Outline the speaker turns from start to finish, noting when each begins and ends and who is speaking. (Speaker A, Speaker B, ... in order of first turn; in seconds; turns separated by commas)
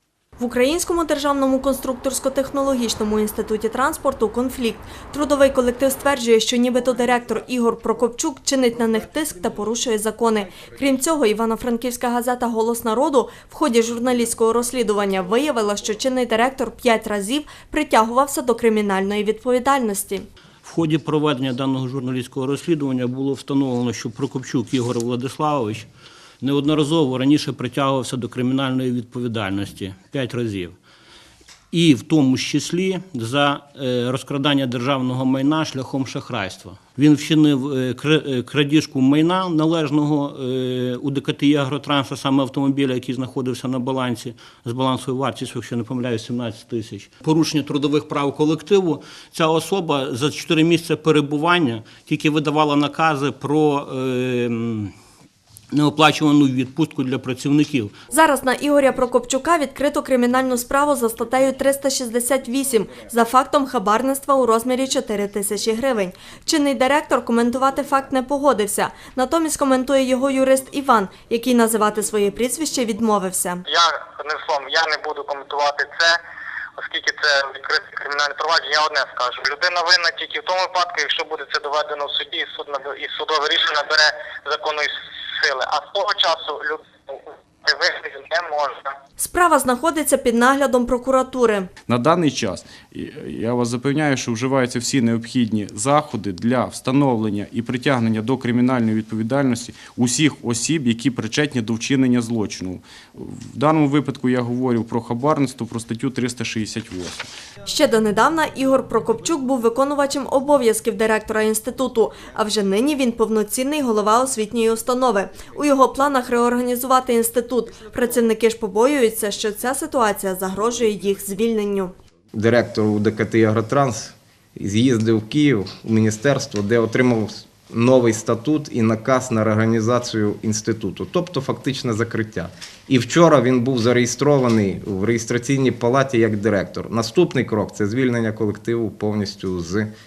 Speaker A: 0.4-20.3, Speaker B: 20.6-25.9, Speaker B: 26.4-30.7, Speaker B: 31.7-54.9, Speaker B: 55.7-57.9, Speaker A: 58.1-73.6, Speaker C: 73.6-76.2, Speaker C: 76.8-88.8, Speaker A: 89.2-91.7, Speaker D: 91.9-107.3, Speaker A: 107.6-121.9, Speaker E: 122.3-139.9